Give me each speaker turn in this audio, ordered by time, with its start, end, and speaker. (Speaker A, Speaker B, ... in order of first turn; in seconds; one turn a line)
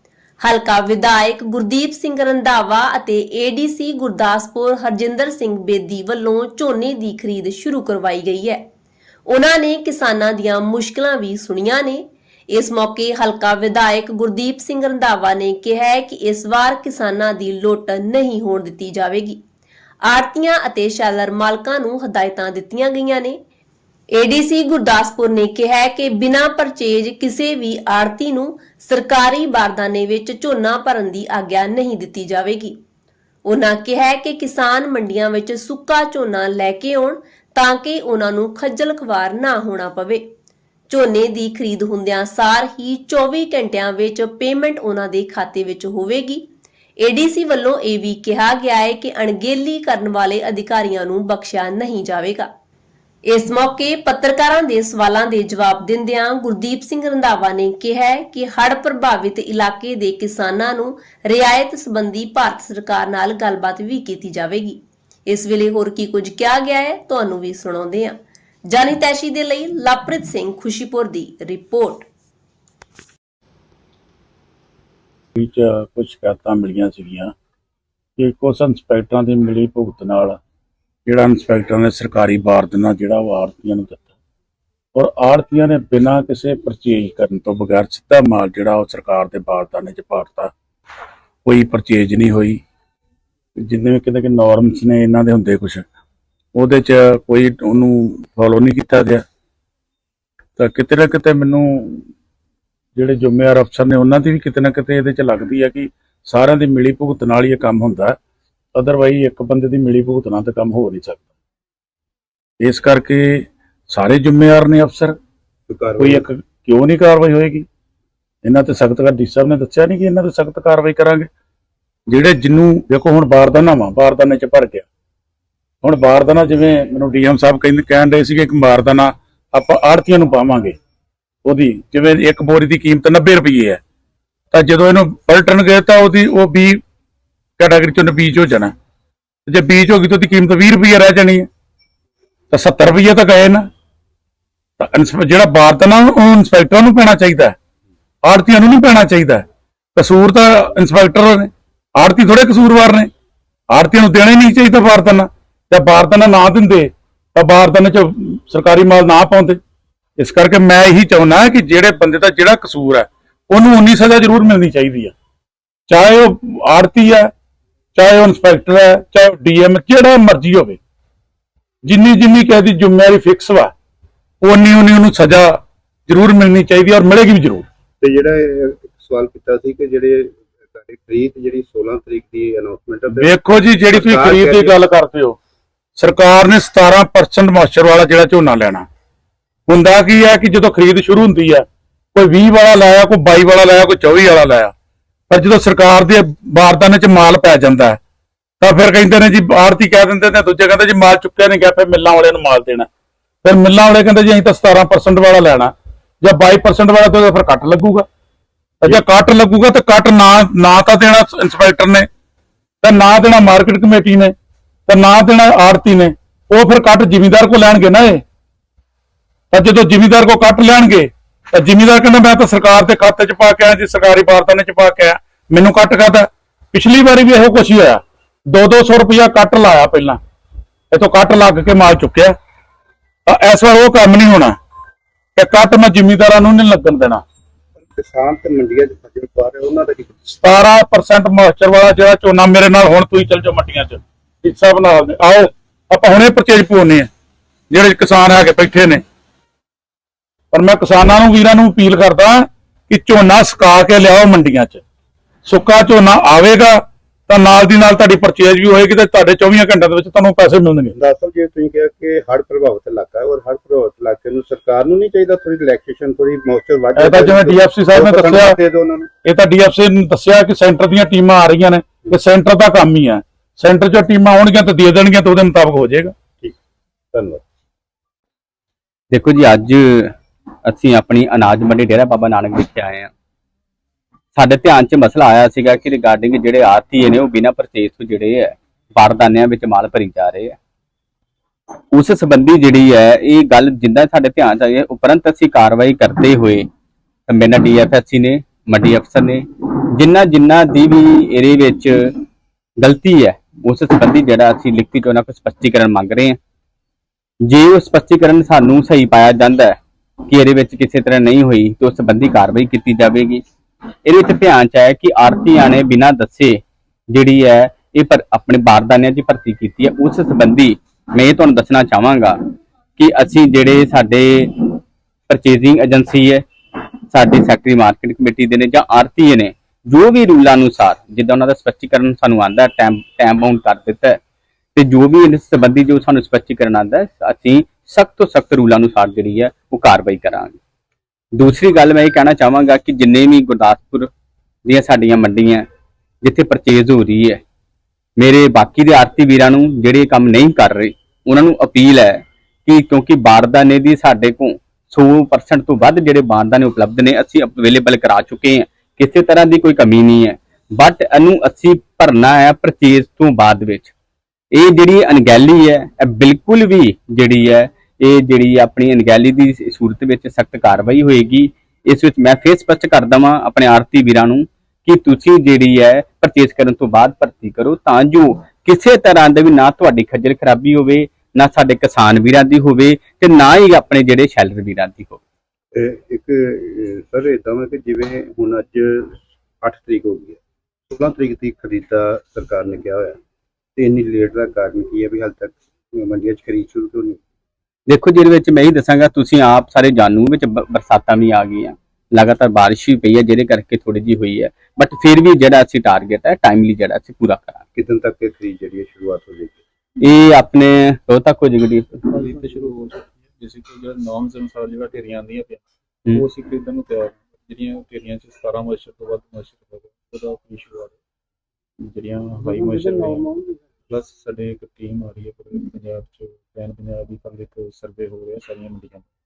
Speaker A: 0.4-8.6
Speaker A: 9.3-19.4
Speaker A: 20.1-23.4
Speaker A: 24.1-32.8
Speaker A: 33.5-40.2
Speaker A: 40.9-46.5
Speaker A: 47.0-52.5
Speaker A: 53.3-68.2
Speaker A: 68.7-72.1
Speaker B: 75.4-77.3
Speaker B: 78.2-80.4
Speaker B: 81.1-84.0
Speaker B: 85.0-90.5
Speaker B: 91.5-92.6
Speaker B: 93.6-95.8
Speaker B: 96.5-99.2
Speaker B: 100.6-102.1
Speaker B: 103.0-108.2
Speaker B: 108.8-111.2
Speaker B: 112.6-115.2
Speaker C: 115.7-116.3
Speaker B: 116.0-117.7
Speaker B: 118.4-121.3
Speaker B: 122.1-124.9
Speaker B: 125.8-130.8
Speaker B: 131.4-133.8
Speaker B: 134.5-136.8
Speaker B: 137.6-138.7
Speaker B: 139.5-141.5
Speaker B: 142.5-143.7
Speaker B: 144.8-147.6
Speaker B: 148.2-149.4
Speaker B: 150.0-153.1
Speaker B: 153.7-159.6
Speaker B: 160.2-165.1
Speaker B: 165.9-167.3
Speaker B: 167.9-170.8
Speaker B: 171.9-173.7
Speaker B: 174.4-177.7
Speaker C: 178.0-183.3
Speaker B: 183.1-185.4
Speaker C: 183.9-184.8
Speaker B: 186.0-188.8
Speaker B: 189.7-194.7
Speaker B: 195.3-198.0
Speaker B: 198.6-202.9
Speaker B: 203.4-205.7
Speaker B: 206.2-208.1
Speaker B: 208.8-212.1
Speaker B: 212.8-214.3
Speaker B: 214.9-218.2
Speaker B: 219.5-228.0
Speaker B: 228.5-230.2
Speaker B: 230.9-232.3
Speaker B: 233.3-234.6
Speaker B: 235.4-237.2
Speaker C: 237.8-240.1
Speaker B: 240.3-247.1
Speaker B: 247.7-249.0
Speaker B: 250.5-254.8
Speaker B: 255.5-260.9
Speaker C: 260.9-269.1
Speaker B: 267.0-268.6
Speaker B: 269.2-276.1
Speaker C: 277.1-277.4
Speaker D: 279.1-280.1
Speaker D: 280.7-283.1
Speaker D: 284.4-290.6
Speaker D: 291.9-296.7
Speaker D: 297.3-299.4
Speaker D: 300.0-302.1
Speaker D: 302.8-306.4
Speaker D: 307.5-313.4
Speaker D: 314.1-322.4
Speaker D: 323.0-326.4
Speaker D: 327.1-334.2
Speaker D: 334.8-340.6
Speaker D: 341.4-344.1
Speaker D: 344.7-345.7
Speaker D: 346.2-347.4
Speaker D: 348.2-363.9
Speaker D: 364.5-385.2
Speaker C: 385.8-393.2
Speaker C: 393.8-397.2
Speaker D: 397.9-407.6
Speaker C: 407.8-409.6
Speaker D: 410.0-411.9
Speaker E: 411.9-415.6
Speaker E: 416.1-421.0
Speaker E: 421.8-423.4
Speaker E: 423.9-429.1